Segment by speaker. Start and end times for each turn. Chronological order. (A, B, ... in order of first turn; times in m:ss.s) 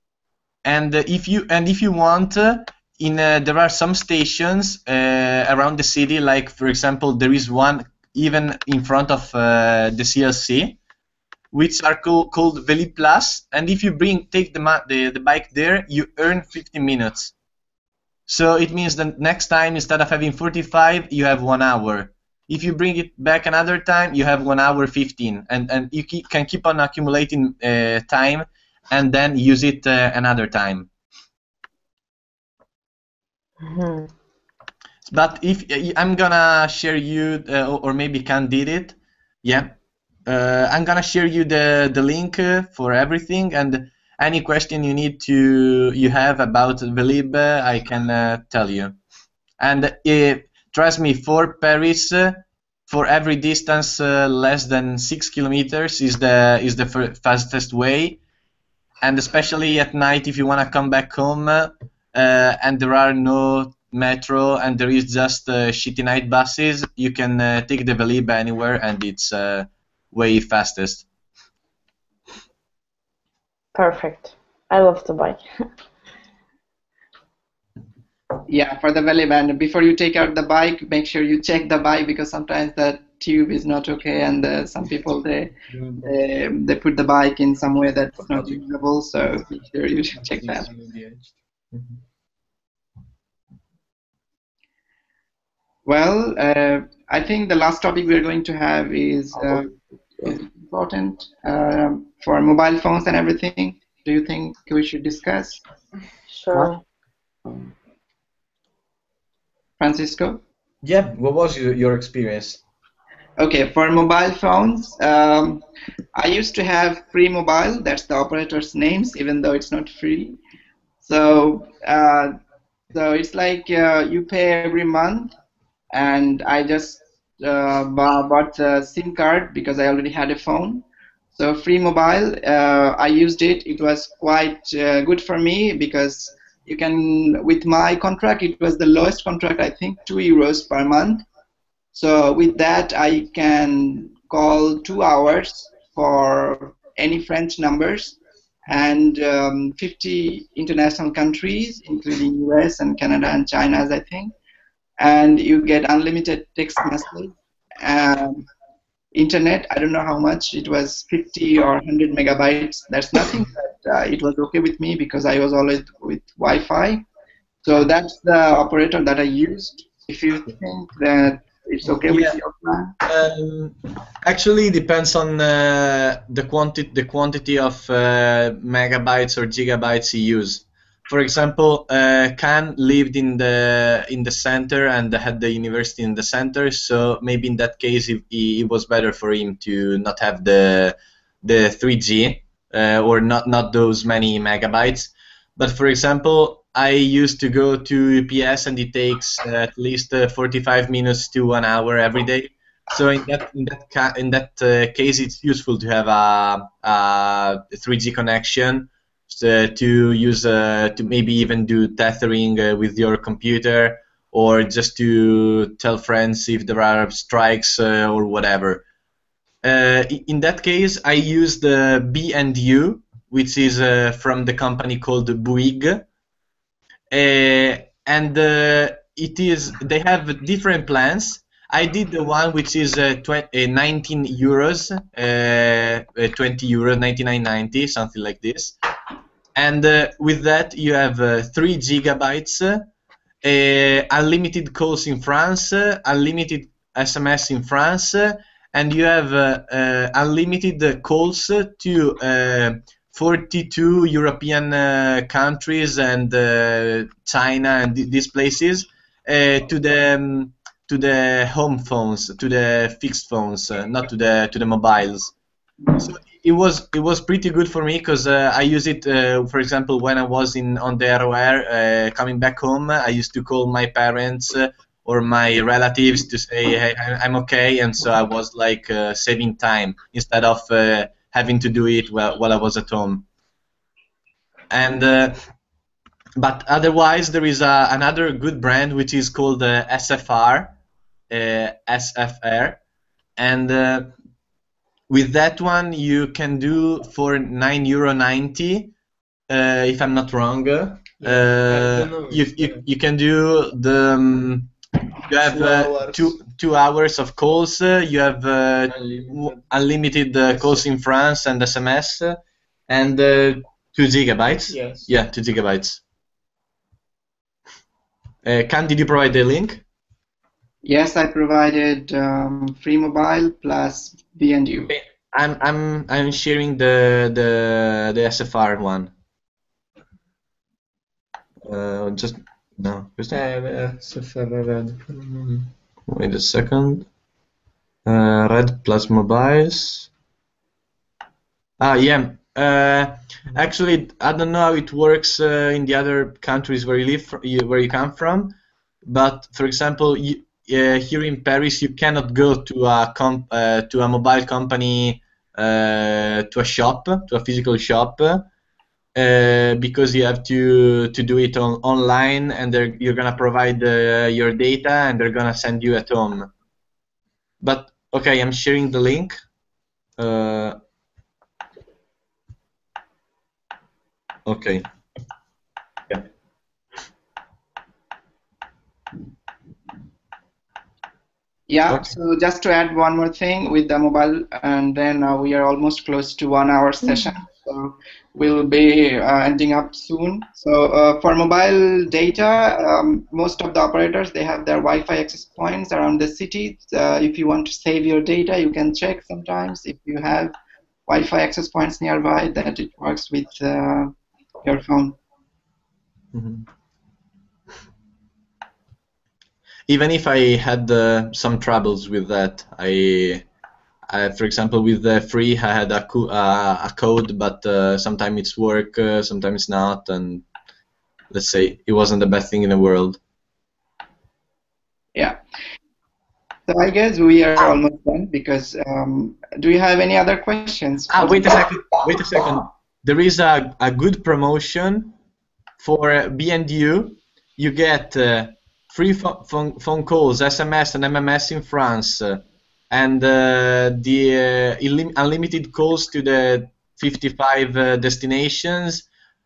0:00.6-0:10.8 A
0:11.5-0:17.3 A
0:18.3-0:30.9 A
0:33.6-0:34.1 B
0:35.0-0:49.0 A
0:49.6-0:58.2 A
0:59.0-1:11.0 A
1:13.7-1:15.4 B
1:18.5-1:30.7 C
1:25.7-1:26.1 D
1:30.2-1:31.3 D
1:35.9-1:39.7 C
1:40.2-1:45.6 C
1:46.3-1:46.8 B
1:49.8-1:50.4 C
1:50.8-1:52.6 A
1:53.4-1:55.6 C
1:56.1-2:00.4 C
2:01.0-2:02.3 C
2:02.9-2:05.3 C
2:05.9-2:21.2 C
2:21.9-2:34.3 C
2:35.0-2:38.5 C
2:39.1-2:47.0 C
2:47.6-2:52.9 C
2:52.0-2:52.4 A
2:53.0-3:38.8 A
3:39.6-3:46.0 A
3:47.1-3:58.8 A
3:59.6-4:02.9 A
4:03.4-4:25.3 A
4:26.0-4:43.3 A
4:44.7-4:45.4 A
4:46.4-4:50.8 A
4:51.3-4:52.8 A
4:53.4-4:54.1 A
4:55.1-4:58.9 A
4:59.5-5:04.7 A
5:01.2-5:02.8 D
5:05.3-5:12.4 A
5:05.4-5:06.4 D
5:08.9-5:09.6 D
5:12.9-5:16.0 A
5:14.7-5:15.1 D
5:18.4-5:19.8 A
5:20.8-5:24.9 C
5:24.9-5:29.1 A
5:31.6-5:33.4 A
5:33.3-5:35.7 D
5:36.1-5:37.1 A
5:38.0-5:40.1 A
5:41.8-5:48.5 A
5:49.0-5:58.5 A
5:59.1-6:06.5 A
6:07.6-6:09.4 A
6:10.2-6:10.8 A
6:14.4-6:14.9 A
6:21.7-6:40.5 C
6:41.1-6:44.1 C
6:44.6-6:45.2 C
6:46.3-6:46.6 A
6:49.9-6:53.4 A
6:54.1-7:00.4 A
7:01.3-7:03.2 A
7:06.7-7:11.7 C
7:11.1-7:15.1 A
7:15.8-7:29.0 A